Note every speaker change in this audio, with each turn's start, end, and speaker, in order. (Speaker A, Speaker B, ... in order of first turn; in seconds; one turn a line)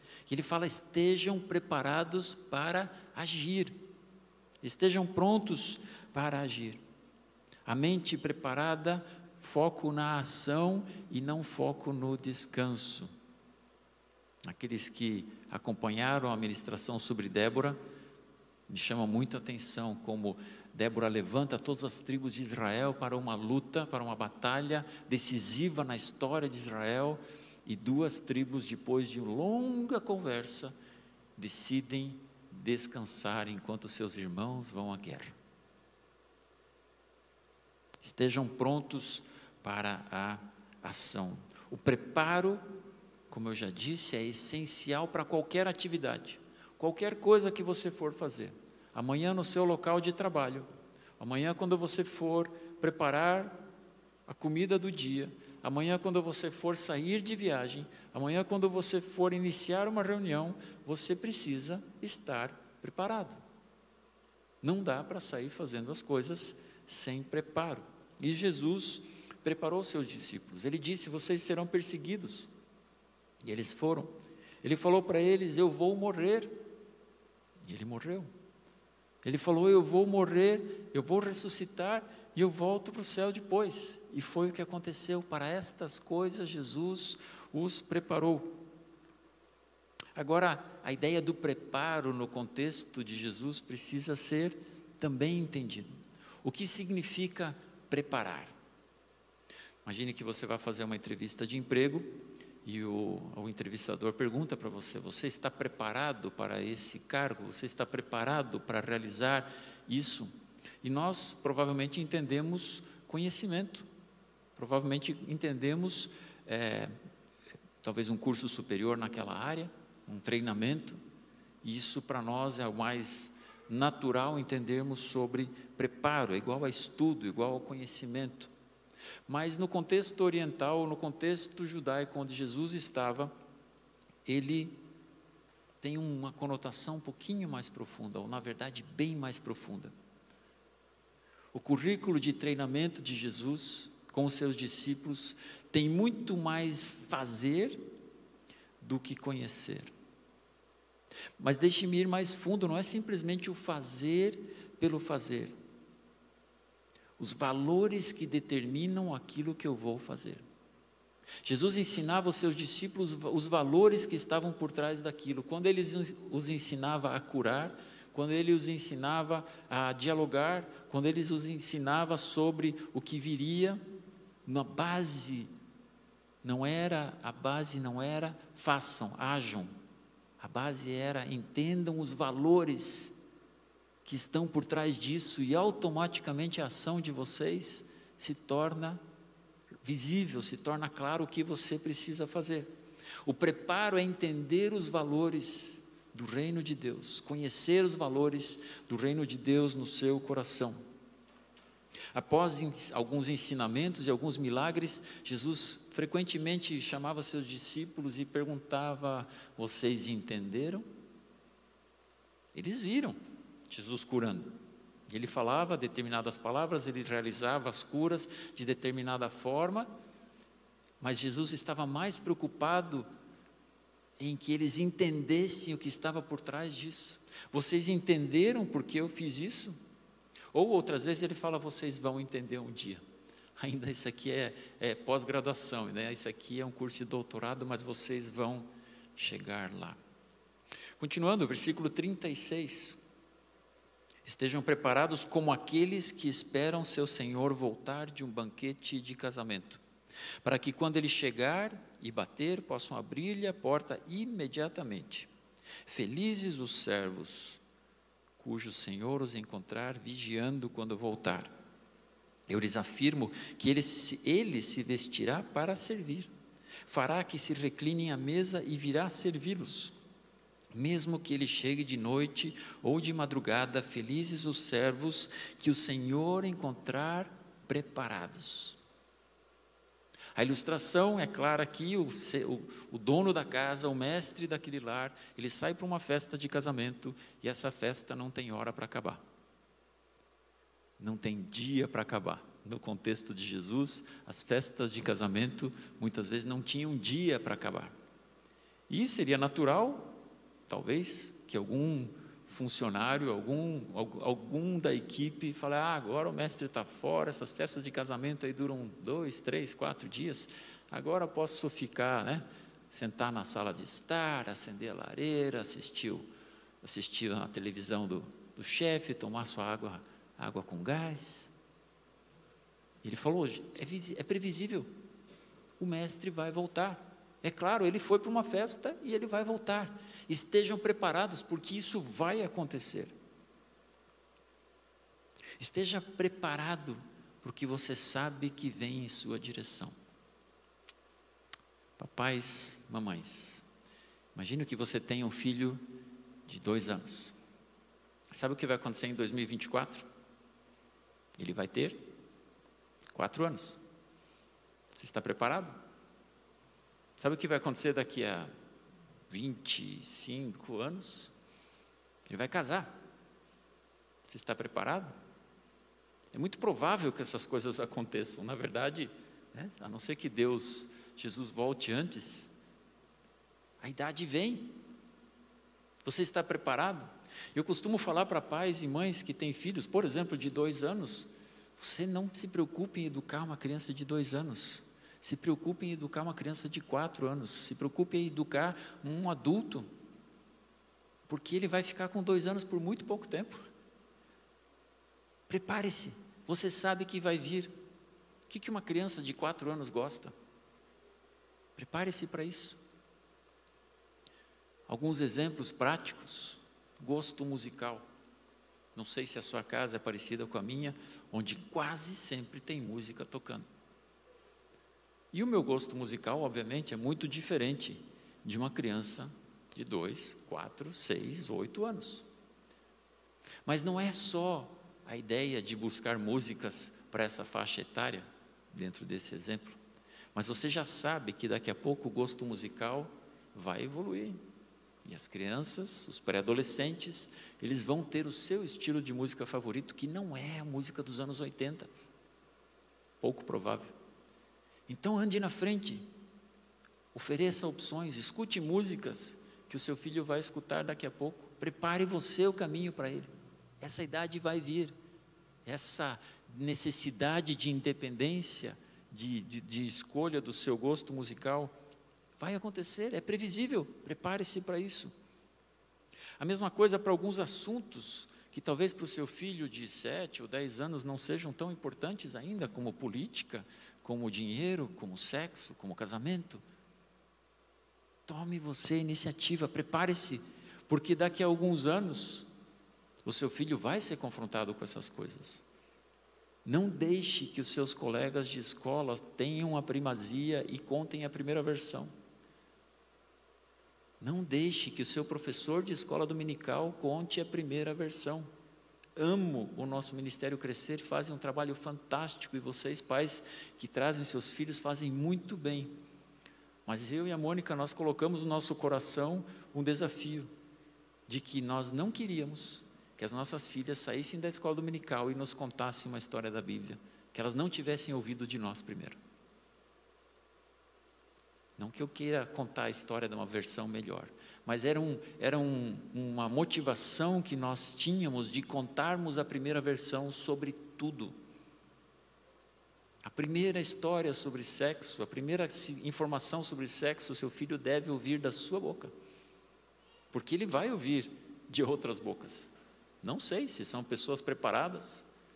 Speaker A: 0.3-3.8
Speaker A: 4.6-6.8
Speaker A: 7.7-13.1
Speaker A: 14.4-17.8
Speaker A: 18.7-30.7
Speaker A: 31.4-35.4
Speaker A: 38.0-42.6
Speaker A: 43.3-53.6
Speaker A: 54.2-63.4
Speaker A: 64.6-72.5
Speaker A: 73.4-76.5
Speaker A: 77.7-78.3
Speaker A: 79.2-88.6
Speaker A: 90.1-98.5
Speaker A: 99.8-110.3
Speaker A: 110.8-113.9
Speaker A: 114.5-116.9
Speaker A: 117.8-121.0
Speaker A: 121.6-128.5
Speaker A: 129.3-133.3
Speaker A: 134.2-134.8
Speaker A: 135.8-139.9
Speaker A: 141.5-147.8
Speaker A: 148.8-149.9
Speaker A: 151.4-155.5
Speaker A: 157.2-160.4
Speaker A: 161.4-173.8
Speaker A: 174.4-175.5
Speaker A: 176.4-179.7
Speaker A: 180.4-183.2
Speaker A: 184.0-189.0
Speaker A: 189.8-192.7
Speaker A: 193.2-200.8
Speaker A: 202.1-210.8
Speaker A: 212.5-213.2
Speaker A: 213.7-214.5
Speaker A: 215.1-219.9
Speaker A: 221.0-223.1
Speaker A: 224.2-229.8
Speaker A: 230.5-233.0
Speaker A: 233.6-240.0
Speaker A: 241.0-243.0
Speaker A: 244.2-249.8
Speaker A: 250.4-255.3
Speaker A: 255.8-257.6
Speaker A: 258.4-261.5
Speaker A: 262.5-266.3
Speaker A: 266.9-269.9
Speaker A: 270.7-278.8
Speaker A: 280.3-289.2
Speaker A: 291.0-297.9
Speaker A: 298.9-316.2
Speaker A: 316.8-321.5
Speaker A: 323.0-324.9
Speaker A: 325.8-333.1
Speaker A: 335.6-339.9
Speaker A: 342.0-343.6
Speaker A: 344.3-345.9
Speaker A: 346.4-347.4
Speaker A: 348.3-350.1
Speaker A: 351.4-352.0
Speaker A: 353.1-353.8
Speaker A: 354.9-355.8
Speaker A: 357.2-358.5
Speaker A: 359.3-361.3
Speaker A: 362.3-362.9
Speaker A: 364.3-365.1
Speaker A: 366.3-372.5
Speaker A: 373.8-374.8
Speaker A: 376.0-389.9
Speaker A: 391.3-393.6
Speaker A: 395.5-397.7
Speaker A: 398.5-400.3
Speaker A: 401.8-402.8
Speaker A: 404.9-408.1
Speaker A: 408.9-413.6
Speaker A: 415.3-422.3
Speaker A: 423.6-429.8
Speaker A: 430.3-434.4
Speaker A: 435.0-441.9
Speaker A: 443.2-443.9
Speaker A: 444.9-446.1
Speaker A: 447.1-454.9
Speaker A: 455.6-461.7
Speaker A: 462.4-465.1
Speaker A: 466.4-476.6
Speaker A: 478.2-482.5
Speaker A: 483.2-485.6
Speaker A: 486.6-492.1
Speaker A: 494.2-498.5
Speaker A: 499.1-505.9
Speaker A: 506.9-510.5
Speaker A: 511.3-519.2
Speaker A: 521.8-531.4
Speaker A: 533.2-539.1
Speaker A: 540.3-545.3